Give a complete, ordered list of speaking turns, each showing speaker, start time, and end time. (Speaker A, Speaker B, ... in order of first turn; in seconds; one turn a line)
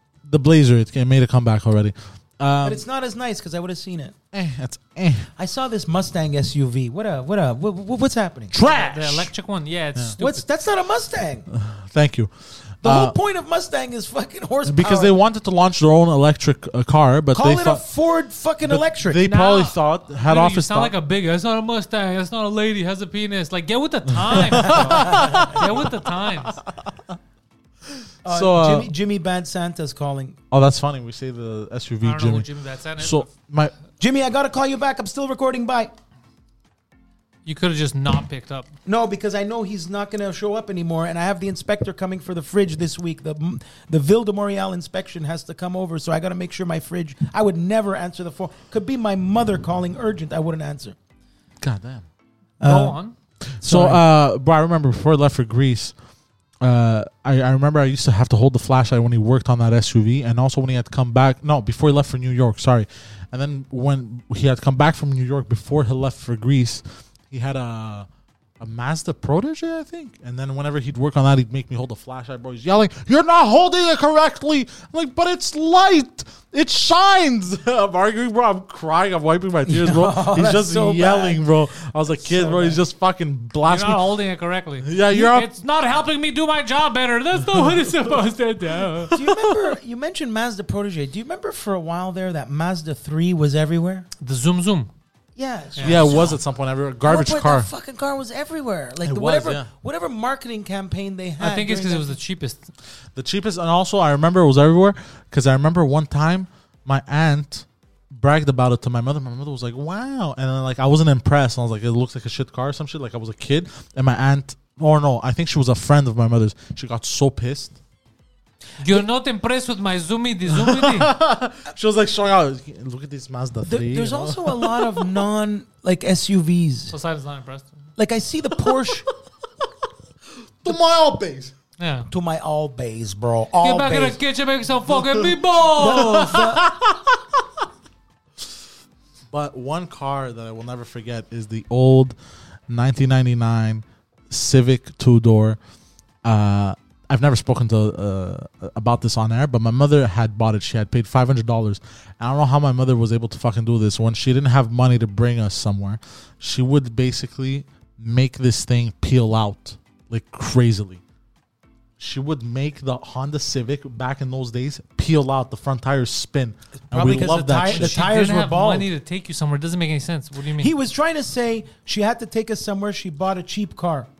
Speaker A: 0.2-2.8
Speaker B: 2.6-4.2
Speaker A: 4.3-5.3
Speaker B: 5.4-8.5
Speaker A: 8.5-9.3
Speaker C: 8.6-10.4
Speaker B: 10.2-11.5
Speaker A: 11.5-13.2
Speaker B: 12.8-15.2
Speaker A: 14.7-17.8
Speaker B: 17.3-19.2
Speaker A: 18.6-20.9
Speaker C: 19.2-26.6
Speaker A: 24.2-25.9
Speaker B: 24.6-25.6
Speaker A: 26.4-27.2
Speaker A: 27.9-28.9
Speaker B: 28.2-30.4
Speaker A: 30.5-33.7
Speaker C: 32.0-33.3
Speaker B: 34.0-35.9
Speaker C: 37.5-38.7
Speaker B: 38.9-51.0
Speaker A: 51.6-52.0
Speaker B: 52.6-53.0
Speaker C: 52.6-53.1
Speaker A: 53.6-55.9
Speaker B: 53.6-54.0
Speaker A: 56.6-68.1
Speaker A: 68.6-84.2
Speaker B: 79.7-81.4
Speaker B: 82.2-82.8
Speaker C: 83.7-89.2
Speaker A: 84.8-85.5
Speaker A: 87.4-87.9
Speaker B: 89.1-94.1
Speaker A: 89.1-89.6
Speaker C: 94.2-94.9
Speaker B: 95.4-96.4
Speaker C: 95.8-96.2
Speaker A: 95.8-97.7
Speaker B: 97.0-102.2
Speaker A: 99.0-99.7
Speaker C: 101.4-102.7
Speaker A: 103.1-117.8
Speaker C: 118.8-121.1
Speaker A: 120.5-125.2
Speaker B: 123.7-126.9
Speaker C: 126.9-127.8
Speaker B: 128.0-129.1
Speaker A: 130.6-131.5
Speaker C: 131.8-132.1
Speaker B: 132.1-134.2
Speaker C: 133.6-136.5
Speaker A: 134.9-137.2
Speaker B: 135.8-136.7
Speaker A: 139.3-142.2
Speaker A: 142.7-145.6
Speaker A: 146.2-161.0
Speaker A: 162.0-168.0
Speaker B: 166.9-168.9
Speaker C: 167.3-170.7
Speaker B: 170.6-174.1